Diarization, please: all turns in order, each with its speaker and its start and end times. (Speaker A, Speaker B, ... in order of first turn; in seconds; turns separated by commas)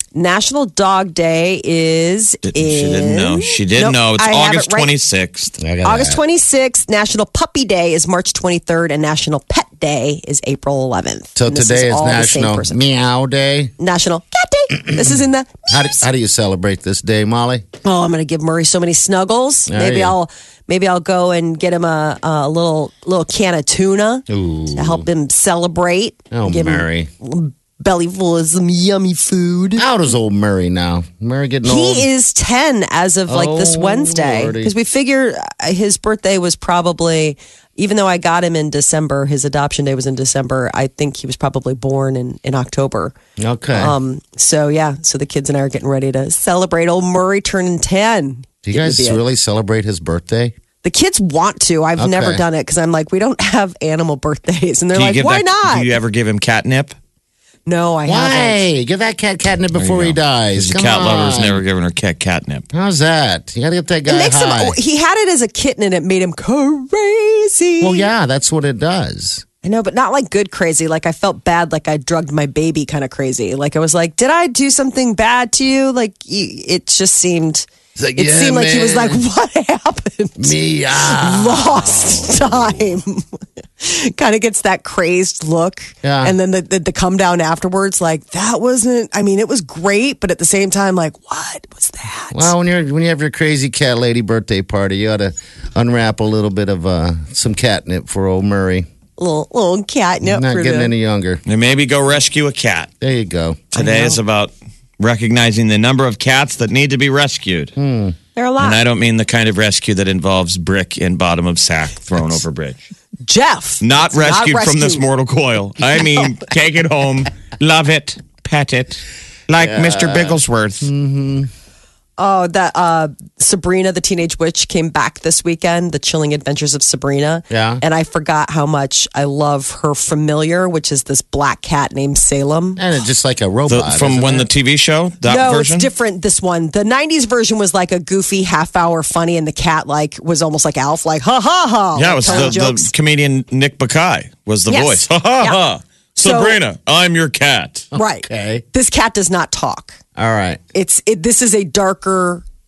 Speaker A: 0.1-4.9, Speaker B: 2.5-5.5, Speaker C: 5.6-6.2, Speaker A: 5.8-12.8, Speaker C: 11.3-13.7, Speaker A: 13.8-15.7, Speaker C: 15.7-17.6, Speaker A: 17.8-29.9, Speaker C: 19.7-20.1, Speaker C: 24.3-25.1, Speaker C: 26.3-27.1, Speaker C: 29.8-32.1, Speaker A: 31.6-43.1, Speaker C: 33.3-34.7, Speaker C: 43.4-43.9, Speaker A: 43.7-49.2, Speaker C: 48.6-50.5, Speaker A: 50.8-55.9, Speaker C: 52.0-52.4, Speaker B: 54.9-56.9, Speaker A: 57.7-58.6, Speaker C: 58.0-61.6, Speaker B: 59.7-62.7, Speaker C: 62.7-64.8, Speaker A: 64.1-68.1, Speaker C: 67.8-69.4, Speaker A: 69.6-83.2, Speaker C: 78.0-79.2, Speaker C: 80.4-82.5, Speaker A: 83.8-92.5, Speaker C: 86.0-86.3, Speaker C: 92.3-98.9, Speaker A: 99.2-100.9, Speaker C: 100.2-101.4, Speaker B: 101.5-102.9, Speaker C: 103.0-103.7, Speaker A: 103.7-104.2, Speaker B: 103.7-107.8, Speaker C: 107.8-108.2, Speaker A: 108.3-108.8, Speaker B: 108.6-112.8, Speaker A: 113.2-115.0, Speaker B: 113.8-120.9, Speaker C: 119.6-121.5, Speaker A: 122.2-132.8, Speaker C: 127.5-127.8, Speaker C: 132.8-134.5, Speaker B: 133.7-135.9, Speaker A: 135.2-142.9, Speaker B: 141.9-147.9, Speaker C: 142.2-142.6, Speaker A: 144.7-145.6, Speaker A: 146.2-146.6, Speaker A: 147.9-150.0, Speaker C: 147.9-148.6, Speaker C: 150.2-150.6, Speaker A: 150.7-152.4